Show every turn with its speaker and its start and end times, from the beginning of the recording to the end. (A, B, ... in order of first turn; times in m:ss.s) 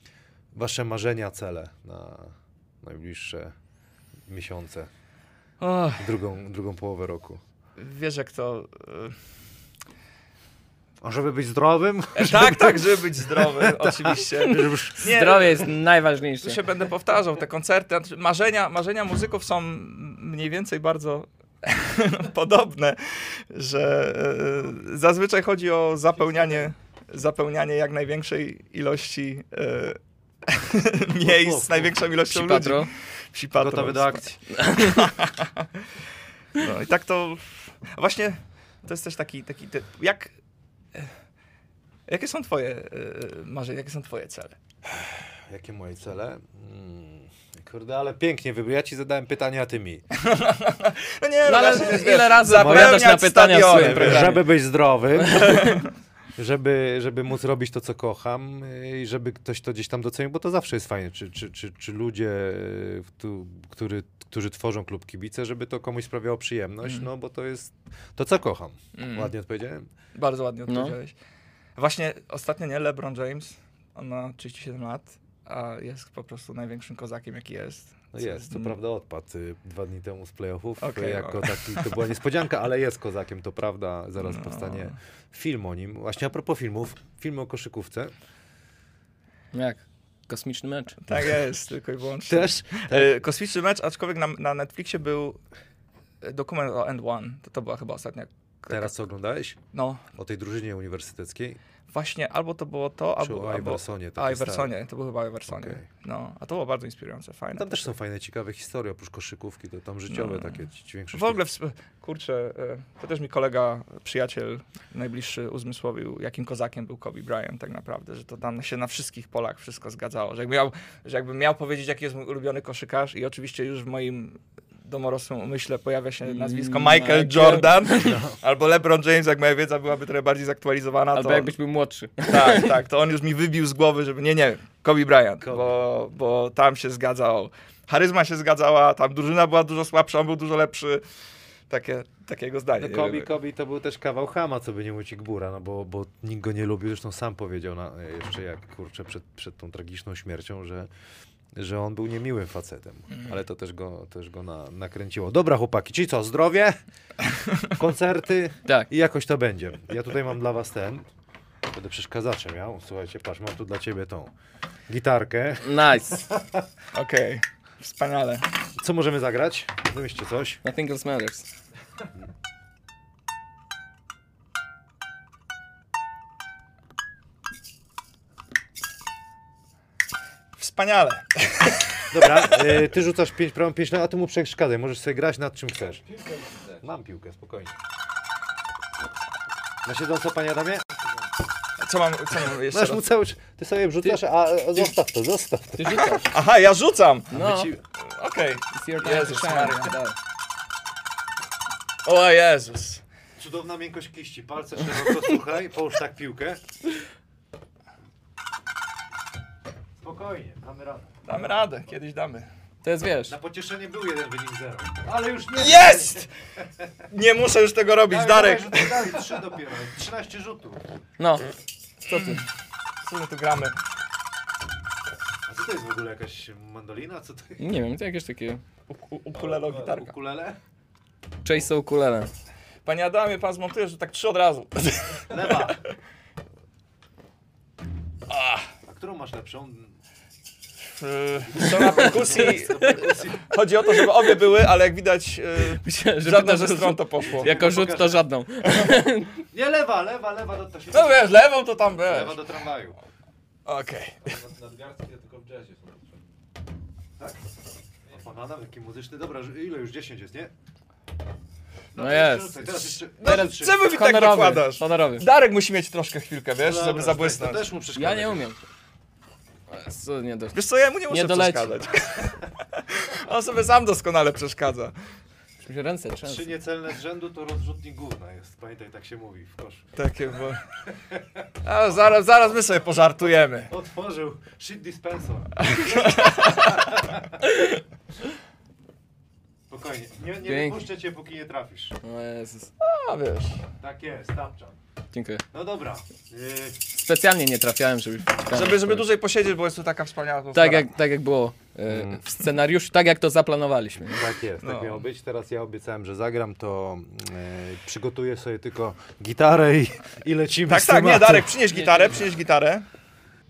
0:00.6-0:03.6 A
0:04.3-0:04.9 A
0:05.6-0:06.1 B
0:06.0-0:07.4 A
0:07.8-0:09.2 B
0:11.0-0:15.1 A
0:12.2-0:15.7 B
0:14.4-0:16.6 C
0:16.4-0:34.3 B
0:31.2-0:31.9 A
0:32.3-0:32.9 C
0:33.6-0:34.4 A
0:34.5-0:35.1 C
0:34.8-0:35.7 B
0:36.6-0:40.3 B
0:42.1-0:44.6 B
0:45.5-0:50.0 A
0:50.2-0:54.4 B
0:51.4-0:54.5 C
0:52.5-0:53.0 A
0:53.7-0:55.8 A
0:55.2-0:55.8 C
0:55.5-0:55.8 B
0:56.4-1:09.9 A
1:06.8-1:07.1 B
1:09.0-1:09.3 B
1:10.2-1:11.2 B
1:10.7-1:11.0 C
1:11.8-1:18.8 B
1:18.1-1:28.1 A
1:20.8-1:21.9 B
1:24.2-1:25.0 B
1:29.5-1:31.0 C
1:31.0-1:35.4 B
1:32.3-1:33.1 A
1:36.2-1:38.9 B
1:38.7-1:41.6 A
1:39.7-1:40.0 B
1:41.9-1:47.9 B
1:43.2-1:44.7 A
1:45.5-1:45.9 A
1:47.6-1:51.4 A
1:50.1-1:50.6 B
1:51.1-2:11.6 B
2:06.2-2:08.2 C
2:08.0-2:08.4 A
2:11.1-2:12.8 C
2:12.3-2:21.0 B
2:15.4-2:15.8 A
2:21.7-2:23.3 B
2:22.8-2:30.9 A
2:31.6-2:36.8 A
2:37.7-2:41.1 A
2:41.7-2:44.3 A
2:44.9-2:46.6 A
2:45.6-2:46.2 C
2:46.9-2:48.5 B
2:48.8-2:50.6 A
2:50.6-2:51.5 C
3:00.6-3:02.8 B
3:02.1-3:06.0 A
3:06.0-3:06.8 D
3:06.8-3:07.8 A
3:09.8-3:10.9 A
3:11.8-3:13.0 B
3:12.7-3:16.2 A
3:15.8-3:16.2 C
3:16.1-3:17.4 B
3:17.3-3:17.7 C
3:17.3-3:17.8 A
3:18.0-3:19.9 B
3:18.7-3:20.2 C
3:22.0-3:23.0 B
3:23.4-3:26.6 A
3:30.0-3:31.2 A
3:31.3-3:32.5 B
3:32.8-3:33.4 C
3:33.3-3:36.2 A
3:35.6-3:36.3 B
3:37.1-3:39.2 B
3:38.1-3:40.8 A
3:41.2-3:41.5 C
3:42.0-3:42.4 C
3:42.1-3:42.4 B
3:43.0-3:43.8 B
3:45.5-3:47.6 A
3:47.6-3:48.6 C
3:48.9-3:50.1 B
3:49.3-3:50.6 A
3:51.4-3:52.3 C
3:52.8-3:55.8 B
3:55.3-3:55.8 A
3:58.3-3:58.7 B
3:58.9-3:59.9 A
4:00.9-4:07.5 B
4:01.6-4:03.5 A
4:01.6-4:03.0 C
4:04.0-4:04.3 C
4:05.8-4:09.4 C
4:07.4-4:08.2 A
4:09.5-4:13.0 A
4:10.9-4:12.4 B
4:13.7-4:14.4 B
4:14.2-4:16.2 D
4:18.1-4:20.5 A
4:21.9-4:23.8 A
4:22.0-4:25.3 C
4:23.2-4:27.7 B
4:26.6-4:28.4 A
4:27.9-4:28.6 C
4:29.7-4:31.8 C
4:30.5-4:35.0 B
4:35.6-4:36.5 C
4:36.2-4:39.9 A
4:40.0-4:40.6 B
4:41.6-4:43.7 B
4:43.7-4:47.2 A
4:45.6-4:46.9 B
4:49.7-4:52.0 A
4:50.4-4:50.8 C
4:52.0-4:52.7 C
4:52.8-4:53.6 B
4:53.8-4:54.8 A
4:55.1-4:55.4 C
4:55.5-4:56.8 A
4:56.9-4:59.0 C
4:58.5-5:00.9 B
5:00.5-5:04.2 C
5:01.9-5:02.2 A
5:04.1-5:11.5 A
5:04.6-5:05.1 B
5:10.7-5:12.9 B
5:11.7-5:12.2 C